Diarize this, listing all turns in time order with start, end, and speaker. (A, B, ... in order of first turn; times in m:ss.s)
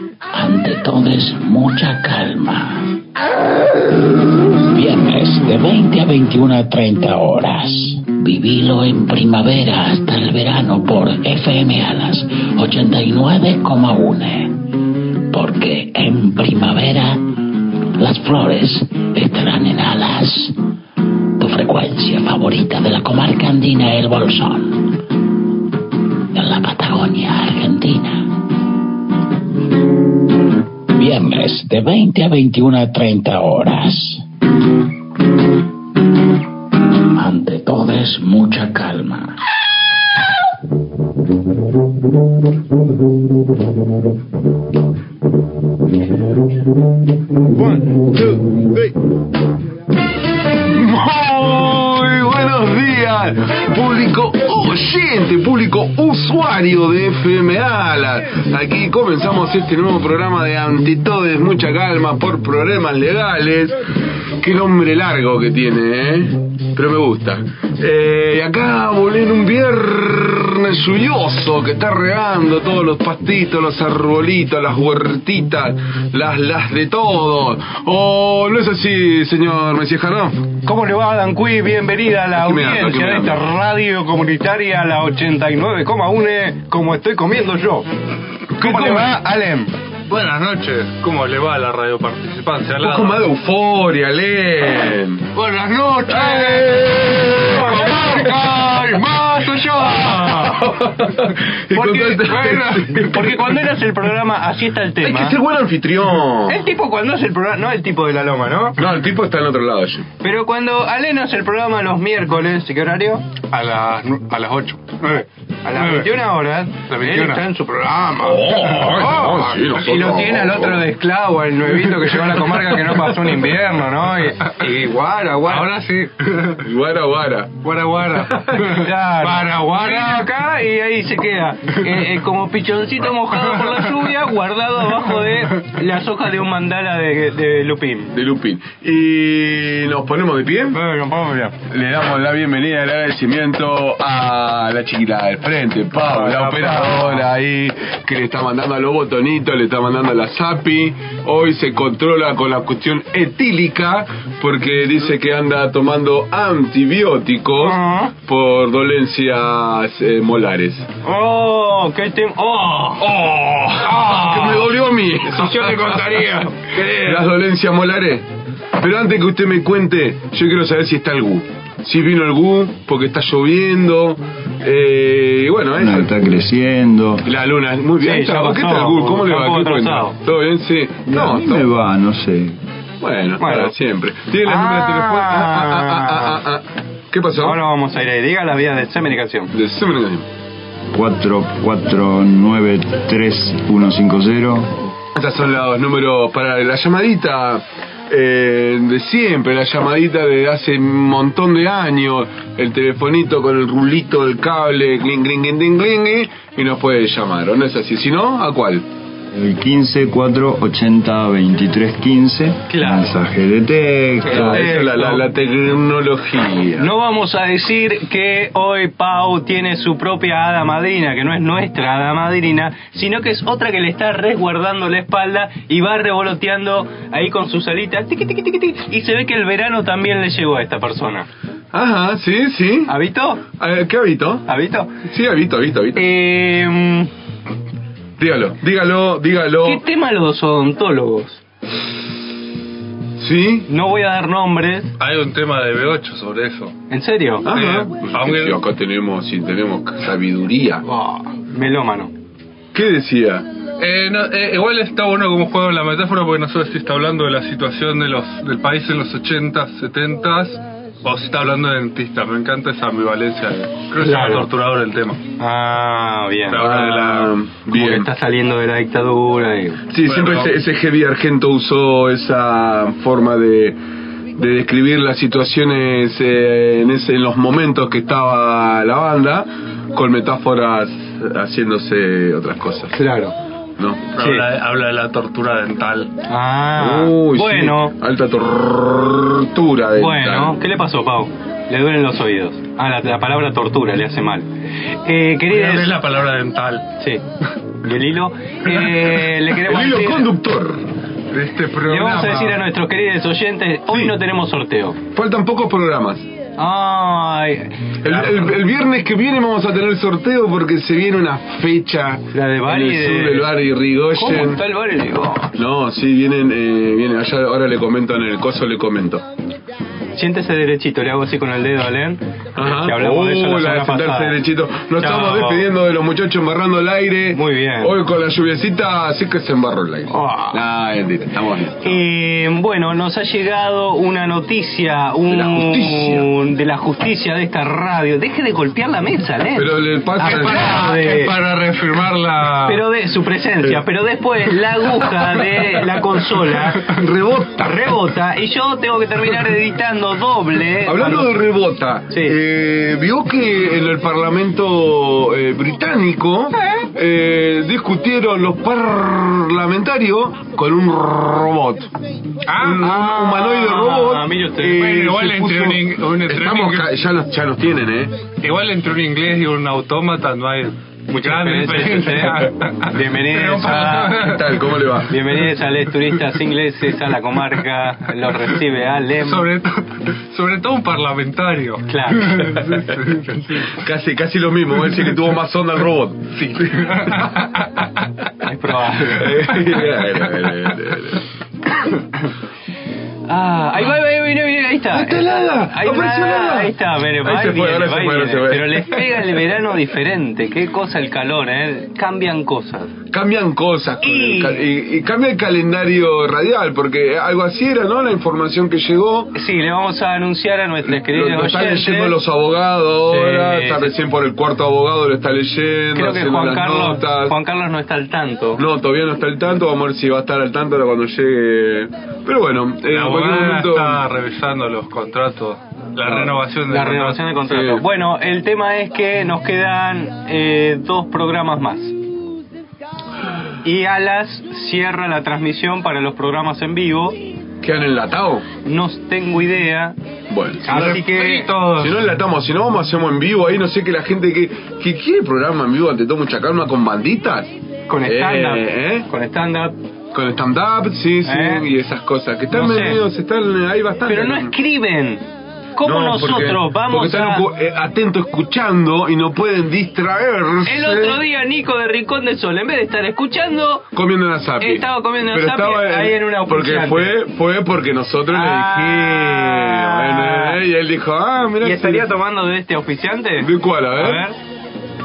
0:00.3-0:02.9 A
0:04.6-0:14.6 A
0:15.3-0:17.2 A
0:18.0-0:20.6 A
0:21.4-0:24.9 A
0:26.3-0:28.3 A
0:30.9-0:34.2 A
0:37.0-0:39.4 A
0:47.6-0:48.2 B
0:50.6-1:03.8 C
1:04.4-1:20.5 C
1:20.6-1:27.9 B
1:22.3-1:23.5 C
1:28.5-1:29.2 C
1:28.6-1:29.7 B
1:30.1-1:33.2 D
1:32.8-1:35.3 C
1:35.4-1:40.6 D
1:36.1-1:39.0 C
1:36.1-1:36.6 B
1:40.0-1:43.6 C
1:41.7-1:45.4 B
1:42.4-1:43.0 D
1:45.0-1:46.6 C
1:46.5-1:48.8 B
1:48.8-1:50.1 C
1:50.2-1:53.3 B
1:53.5-1:56.2 D
1:55.6-1:58.5 B
1:56.9-1:57.4 D
1:58.2-2:00.9 C
1:58.6-1:59.7 D
1:59.8-2:06.1 B
2:05.4-2:06.6 D
2:06.6-2:08.8 C
2:07.6-2:10.3 D
2:08.6-2:18.1 B
2:18.1-2:20.8 C
2:20.7-2:21.6 B
2:21.7-2:40.9 C
2:26.1-2:27.1 D
2:37.6-2:38.1 B
2:41.0-2:43.1 B
2:43.0-2:46.0 C
2:43.8-2:44.7 B
2:45.2-2:47.3 B
2:46.9-2:48.3 C
2:48.8-2:56.1 C
2:55.8-2:57.3 E
2:57.2-3:01.7 C
2:58.0-3:00.2 B
3:01.1-3:02.6 E
3:03.0-3:07.6 C
3:03.4-3:03.7 B
3:04.4-3:06.4 B
3:07.4-3:09.5 B
3:09.5-3:10.3 C
3:10.9-3:14.8 E
3:15.1-3:28.8 C
3:29.3-3:34.7 E
3:32.7-3:33.2 B
3:34.2-3:35.2 B
3:34.3-3:36.9 C
3:36.8-3:51.3 B
3:51.7-3:52.9 C
3:52.9-3:53.4 B
3:53.5-3:54.5 C
3:54.5-3:54.9 B
3:55.0-3:56.1 C
3:56.0-3:57.1 B
3:58.2-3:59.8 C
3:59.6-4:01.4 B
4:03.2-4:03.7 C
4:03.7-4:04.9 B
4:05.0-4:06.7 D
4:06.9-4:07.4 B
4:07.4-4:10.8 C
4:07.5-4:08.6 D
4:10.8-4:12.1 B
4:12.7-4:13.5 C
4:13.8-4:25.2 D
4:24.0-4:24.5 B
4:25.4-4:26.6 B
4:26.5-4:27.3 D
4:26.6-4:28.1 C
4:27.7-4:29.8 B
4:29.9-4:33.8 C
4:30.0-4:30.5 D
4:34.4-4:42.9 C
4:42.9-4:43.3 B
4:43.8-4:44.0 C
4:44.1-4:46.1 D
4:44.2-4:44.4 B
4:46.3-4:47.9 B
4:46.8-4:50.6 C
4:50.0-4:55.9 B
4:55.5-4:56.9 D
4:57.0-4:57.2 B
4:57.8-5:00.3 B
4:59.6-5:02.6 C
5:01.8-5:05.0 B
5:03.9-5:04.2 C
5:05.1-5:06.3 C
5:06.6-5:07.9 B
5:08.0-5:14.6 C
5:12.3-5:13.5 B
5:14.1-5:15.5 B
5:15.5-5:19.2 C
5:20.1-5:24.4 B
5:22.6-5:32.0 C
5:25.0-5:25.7 B
5:27.3-5:27.9 B
5:30.1-5:30.6 B
5:31.8-5:41.3 B
5:35.3-5:36.3 C
5:39.5-5:40.8 C
5:40.2-5:42.8 D
5:42.6-5:46.8 B
5:46.7-5:47.9 C
5:47.6-5:51.4 B
5:50.8-6:01.9 C
5:52.1-5:52.4 B
5:56.5-5:56.9 B
6:02.5-6:02.8 D
6:02.5-6:08.2 C
6:02.8-6:05.0 B
6:04.7-6:06.9 D
6:08.4-6:15.0 D
6:11.1-6:14.2 B
6:14.2-6:15.1 C
6:15.1-6:19.5 B
6:19.2-6:23.7 D
6:21.9-6:22.6 B
6:23.6-6:27.3 C
6:26.4-6:28.0 D
6:28.4-6:29.7 B
6:29.0-6:31.2 C
6:29.5-6:30.7 D
6:33.3-6:42.9 B
6:34.9-6:39.3 C
6:43.1-6:49.4 C
6:44.0-6:44.6 B
6:49.3-6:52.2 B
6:50.8-6:57.4 C
6:53.1-6:53.9 B
6:55.9-6:58.6 B
6:58.6-7:04.0 C
7:02.9-7:07.4 D
7:06.0-7:06.4 C
7:06.7-7:11.9 B
7:07.4-7:07.8 C
7:13.6-7:17.2 B
7:17.6-7:18.4 C
7:18.6-7:20.0 B
7:20.3-7:21.1 C
7:20.6-7:21.9 B
7:20.7-7:21.8 D
7:21.8-7:29.1 C
7:27.9-7:29.7 B
7:30.1-7:34.5 C
7:31.2-7:31.7 B
7:32.5-7:33.0 B
7:34.0-7:35.2 B
7:35.8-7:37.5 B
7:35.8-7:41.2 C
7:40.6-7:43.8 B
7:43.9-7:52.1 C
7:44.6-7:47.2 B
7:48.3-7:50.6 B
7:51.6-7:54.4 B
7:53.4-7:54.2 C